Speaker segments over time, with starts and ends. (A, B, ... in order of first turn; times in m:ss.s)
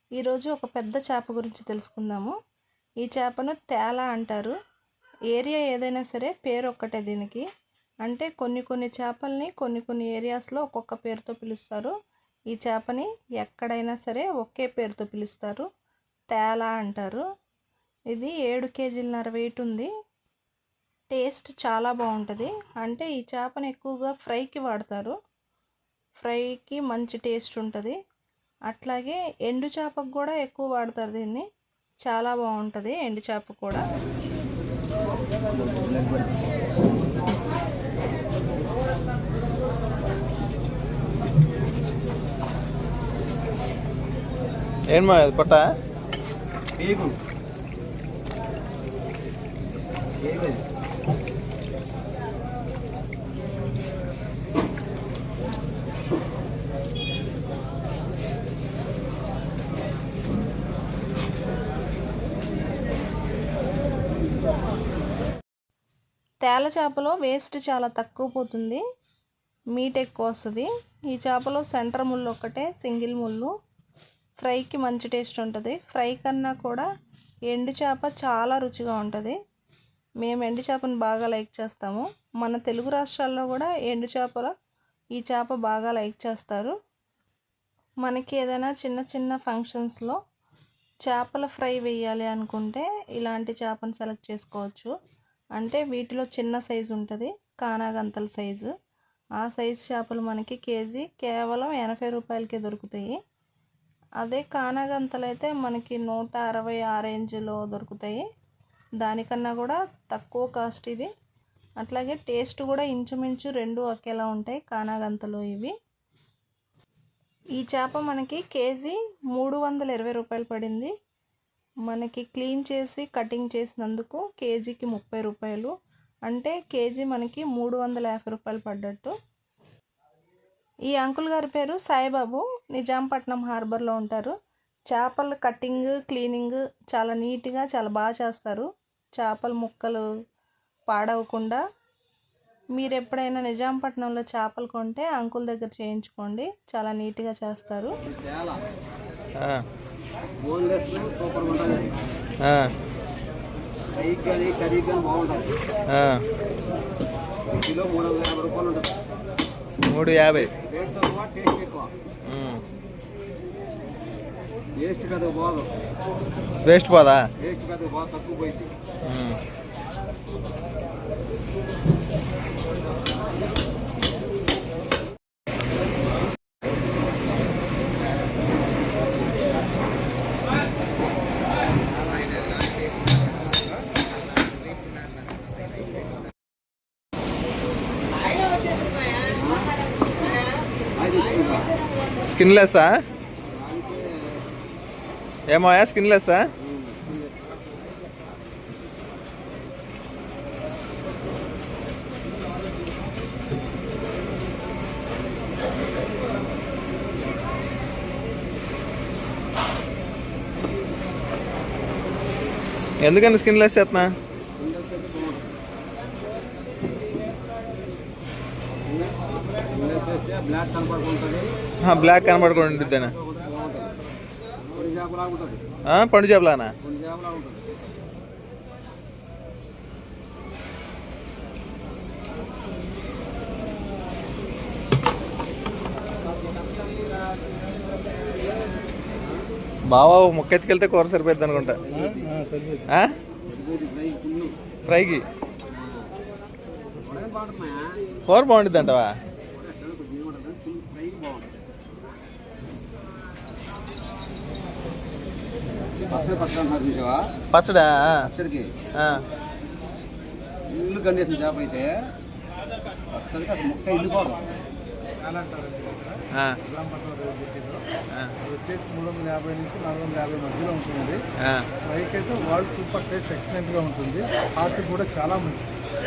0:00.2-0:02.3 A
0:03.0-0:04.6 A
0:05.3-0:07.4 A
0:08.0-0:11.9 A
0:12.5-0:15.7 A
0:16.3-0:17.2 A
0:18.1-0:19.9 A
0:21.1-0:25.2 A
0:26.2-0:28.0 A
0:28.7-0:31.4 A
0:32.0-0:33.8 A
0:35.7-0:36.3 B
0:44.9-0:45.7 C
0:46.8-0:47.2 B
0:50.2-0:50.6 B
1:06.4-1:08.8 A
1:09.7-1:13.5 A
1:14.4-1:16.9 A
1:17.5-1:19.4 A
1:20.2-1:24.5 A
1:25.2-1:26.7 A
1:28.0-1:30.2 A
1:31.0-1:34.9 A
1:35.6-1:38.7 A
1:39.4-1:43.1 A
1:44.2-1:48.2 A
1:49.0-1:51.1 A
1:51.8-1:55.7 A
1:57.6-2:00.9 A
2:01.9-2:05.8 A
2:06.3-2:09.2 A
2:10.9-2:14.3 A
2:14.9-2:20.1 A
2:20.9-2:21.6 A
2:22.8-2:28.0 A
2:28.1-2:28.6 B
2:29.4-2:29.6 C
2:30.4-2:31.9 B
2:32.4-2:32.7 C
2:33.9-2:35.6 B
2:35.9-2:36.2 C
2:37.6-2:38.9 B
2:39.9-2:40.5 C
2:40.4-2:41.9 B
2:42.3-2:42.6 C
2:44.8-2:45.7 B
2:46.6-2:47.3 C
2:47.4-2:48.7 B
2:49.0-2:49.4 C
3:09.3-3:09.8 B
3:11.0-3:11.8 B
3:12.2-3:13.0 C
3:13.5-3:14.4 B
3:15.5-3:16.5 C
3:16.6-3:17.5 B
3:33.0-3:34.1 C
3:34.6-3:35.6 B
3:38.9-3:41.6 B
3:41.8-3:43.2 C
3:42.4-3:44.0 B
3:44.6-3:45.6 B
3:45.8-3:46.8 C
3:46.8-3:47.8 B
3:59.9-4:01.8 C
4:01.8-4:02.3 B
4:02.0-4:02.8 D
4:02.9-4:03.2 C
4:03.5-4:04.6 B
4:04.9-4:05.2 C
4:05.7-4:06.1 B
4:07.0-4:08.1 B
4:08.3-4:09.2 C
4:09.6-4:11.6 B
4:16.1-4:17.3 B
4:17.5-4:18.3 C
4:18.3-4:18.7 B
4:19.0-4:19.2 C
4:20.7-4:22.1 B
4:23.1-4:24.5 B
4:25.2-4:27.8 D
4:28.4-4:31.2 D
4:31.8-4:35.8 D